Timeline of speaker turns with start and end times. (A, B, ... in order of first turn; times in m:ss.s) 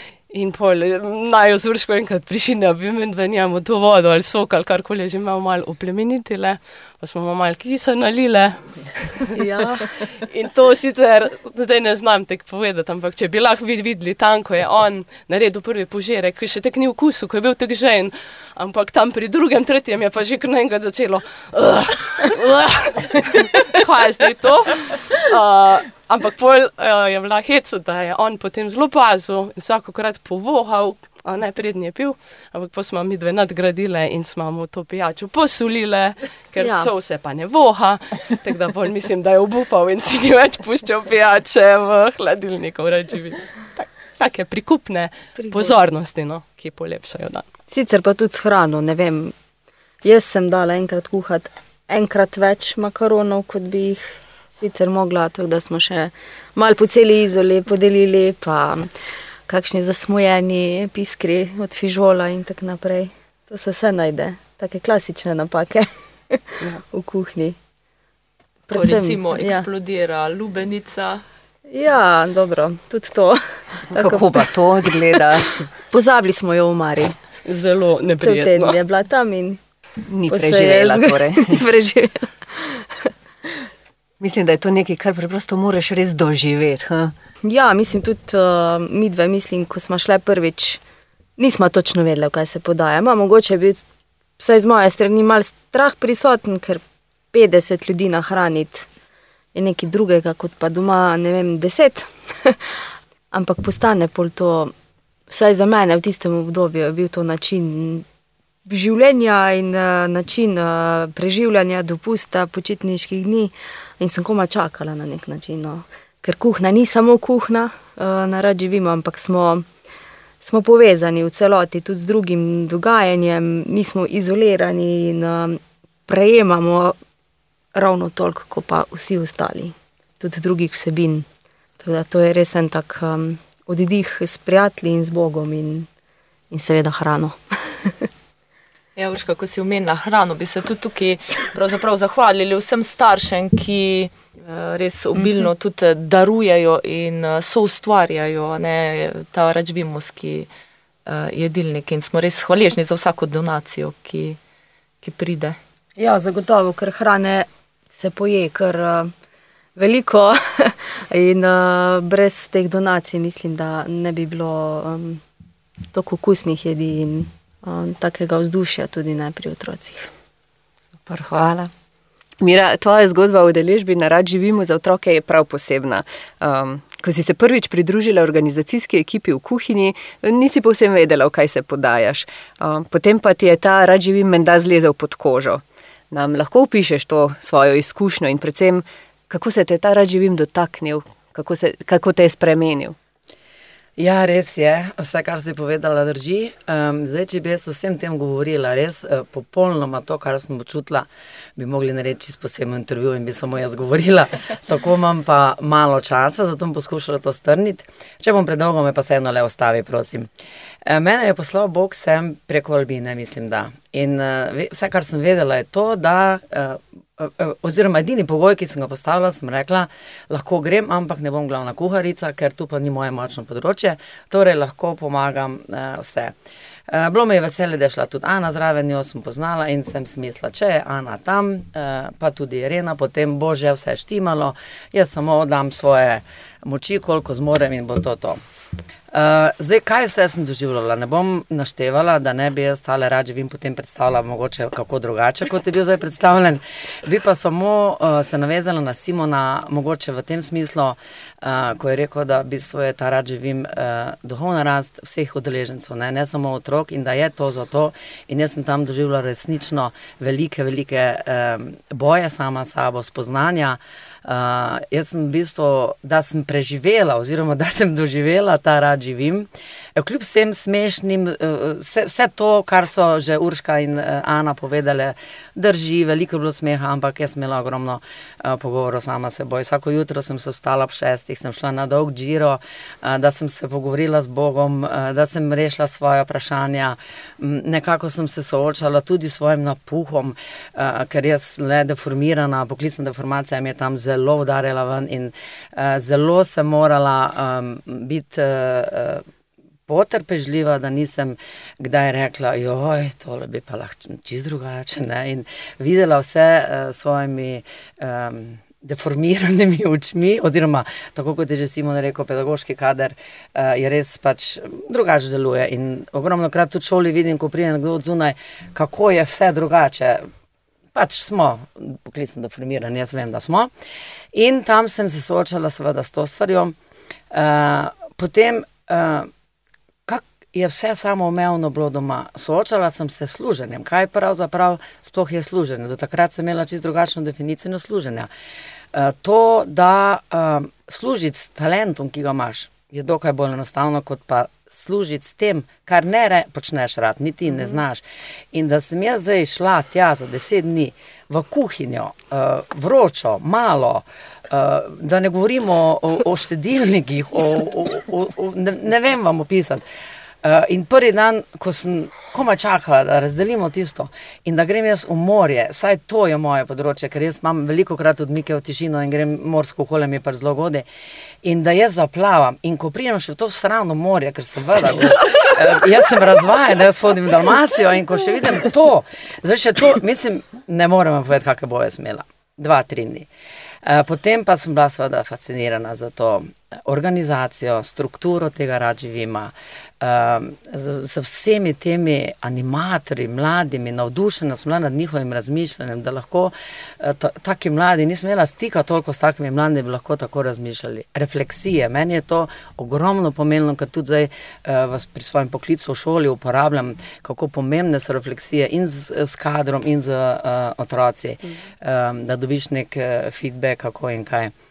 0:00.3-0:09.2 A
0:09.3-0:09.9 B
0:10.0-0:47.4 A
0:36.6-0:36.9 B
0:45.4-0:45.8 B
0:47.7-0:49.4 B
0:50.0-0:59.0 B
0:59.5-1:07.6 B
1:08.7-1:09.7 B
1:08.7-1:11.2 C
1:11.7-1:14.5 B
1:14.0-1:15.5 D
1:15.9-1:17.1 B
1:17.4-1:18.8 A
1:18.2-1:19.6 B
1:20.1-1:21.5 D
1:20.3-1:22.8 B
1:24.2-1:27.1 D
1:27.4-1:30.8 B
1:31.4-1:33.8 B
1:34.4-1:38.9 B
1:39.5-1:42.8 B
1:43.3-1:44.7 B
1:45.3-1:48.0 B
1:48.7-1:59.7 B
2:00.4-2:07.0 B
2:07.7-2:11.3 B
2:11.8-2:15.9 B
2:16.5-2:18.0 B
2:19.0-2:30.5 C
2:31.1-2:34.4 C
2:35.0-2:35.6 C
2:36.0-2:39.1 B
2:39.8-2:45.2 B
2:45.9-2:50.1 B
2:51.1-2:51.7 D
2:52.4-3:13.0 D
3:14.0-3:30.3 E
3:30.9-3:46.4 E
3:46.9-3:58.4 E
3:59.1-4:59.2 E
4:59.9-5:20.3 E
5:21.0-5:23.7 E
5:24.3-5:26.8 E
5:27.3-5:29.3 E
5:30.1-5:38.3 E
5:38.9-5:59.8 E
6:00.4-6:10.8 E
6:11.4-6:23.3 E
6:23.8-6:54.5 E